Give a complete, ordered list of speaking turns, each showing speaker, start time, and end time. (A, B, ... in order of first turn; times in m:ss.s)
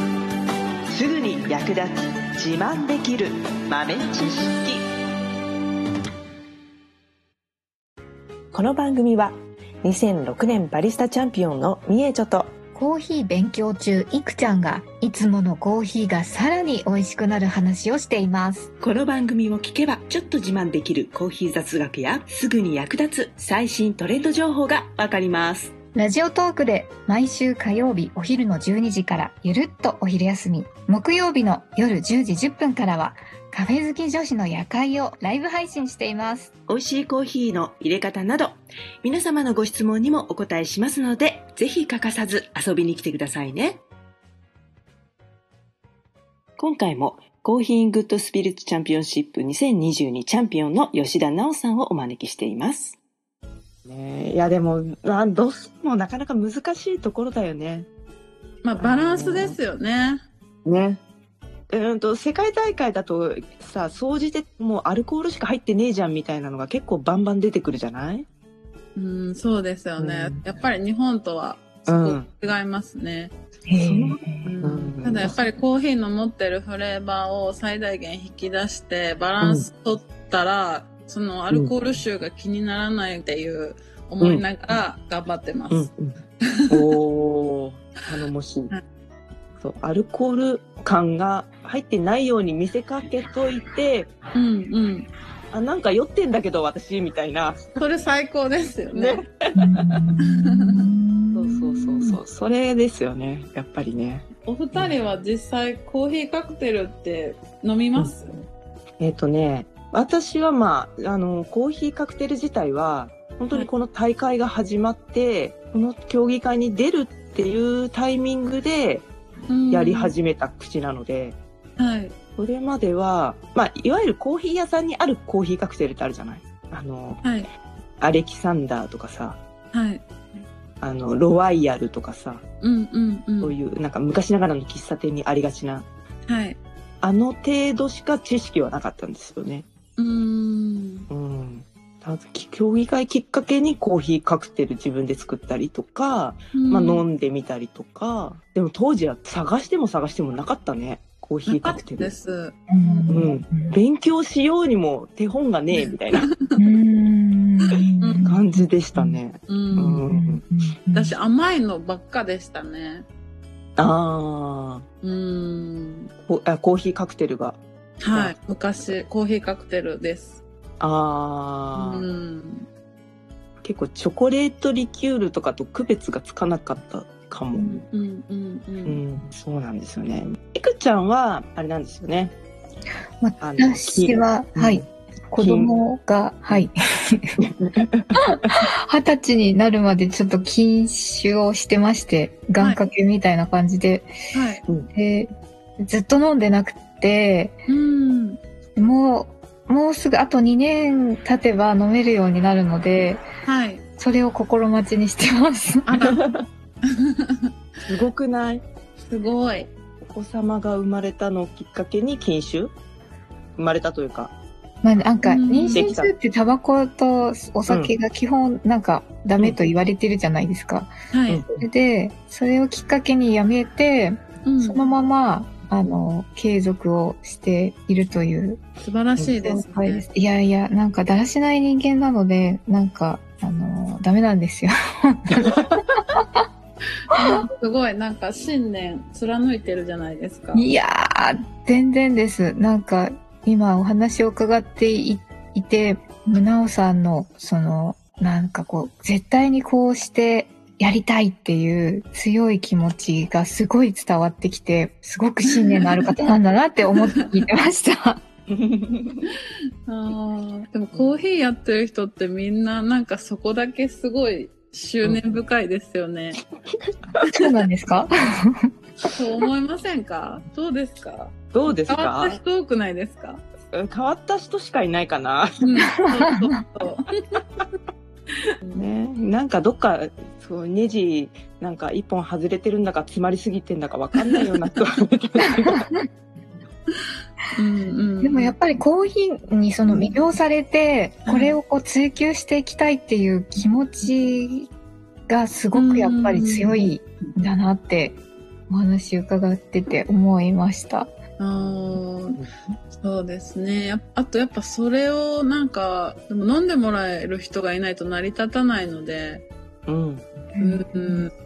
0:00.9-0:01.6 A
0:01.5-0:01.9 B
0:02.5-0:03.3 A
0:02.5-0:03.2 B
0:03.7-0:04.7 B
0:08.5-0:12.5 A
0:12.7-0:18.7 C
0:18.8-0:25.7 A
0:25.9-0:36.5 C
0:36.7-0:43.8 A
0:46.6-0:53.0 A
0:53.8-0:57.9 B
0:58.6-1:00.2 D
0:58.8-0:59.6 B
1:00.6-1:01.0 B
1:01.7-1:08.3 B
1:08.9-1:13.3 D
1:10.0-1:10.4 B
1:11.8-1:12.3 B
1:13.7-1:14.6 C
1:13.8-1:15.3 B
1:14.4-1:25.9 D
1:19.4-1:19.7 B
1:24.2-1:24.5 B
1:25.7-1:26.2 B
1:26.7-1:28.7 B
1:29.6-1:34.1 B
1:34.3-1:35.1 D
1:35.5-1:37.8 B
1:37.8-1:39.2 D
1:38.9-1:39.9 B
1:39.5-1:42.2 C
1:40.3-1:40.8 D
1:41.3-1:45.0 B
1:44.4-1:48.4 D
1:49.0-1:59.1 B
1:59.5-2:00.1 D
1:59.7-2:01.4 B
2:01.8-2:02.1 D
2:02.4-2:07.2 B
2:07.2-2:07.5 D
2:08.0-2:09.4 B
2:09.7-2:10.4 D
2:10.8-2:12.4 B
2:12.6-2:13.5 D
2:13.4-2:15.9 B
2:16.2-2:16.6 D
2:17.0-2:19.6 B
2:20.0-2:21.1 D
2:21.1-2:32.1 B
2:26.5-2:27.0 D
2:31.5-2:33.2 D
2:32.7-2:33.7 C
2:33.1-2:36.3 B
2:36.6-2:39.2 C
2:38.0-2:38.3 D
2:38.2-2:40.5 B
2:39.5-2:40.0 D
2:39.7-2:41.2 C
2:40.9-2:43.0 D
2:43.8-2:44.8 B
2:45.0-2:46.1 D
2:46.2-2:47.6 B
2:48.0-2:50.4 D
2:50.8-2:52.1 B
2:51.8-2:52.6 D
2:53.6-2:57.8 B
2:57.6-2:59.0 D
2:58.8-3:02.3 B
3:03.2-3:07.3 C
3:03.4-3:05.7 B
3:07.4-3:08.2 B
3:08.2-3:14.1 C
3:14.3-3:14.6 D
3:14.9-3:15.3 C
3:15.8-3:17.6 C
3:17.7-3:18.4 D
3:18.8-3:23.2 C
3:23.4-3:23.8 D
3:24.0-3:26.0 C
3:25.8-3:26.2 D
3:26.1-3:26.4 B
3:26.9-3:27.5 D
3:27.8-3:28.6 B
3:29.0-3:29.7 D
3:30.0-3:32.7 B
3:33.6-3:34.3 B
3:34.8-3:40.9 C
3:35.2-3:35.9 D
3:35.7-3:36.1 B
3:37.7-3:37.9 B
3:41.1-3:41.4 D
3:41.3-3:41.6 B
3:41.6-3:48.6 C
3:44.4-3:44.8 D
3:48.8-3:50.0 D
3:49.2-3:54.7 C
3:55.4-3:55.8 B
3:56.2-3:56.4 C
3:57.1-4:00.6 D
4:00.5-4:18.2 C
4:15.5-4:16.1 D
4:18.5-4:19.2 B
4:19.9-4:26.4 D
4:20.9-4:21.2 B
4:25.0-4:25.3 B
4:27.3-4:28.5 C
4:29.2-4:31.3 D
4:31.5-4:32.4 B
4:31.9-4:33.4 D
4:33.7-4:35.7 B
4:35.6-4:37.2 D
4:38.7-4:45.8 B
4:45.6-4:46.0 C
4:47.6-4:48.5 D
4:48.2-4:54.7 C
4:51.2-4:51.6 D
4:55.3-5:01.1 C
4:55.7-4:56.8 D
5:01.4-5:02.4 D
5:02.9-5:09.4 D
5:09.9-5:10.3 B
5:10.5-5:11.2 C
5:10.6-5:11.3 D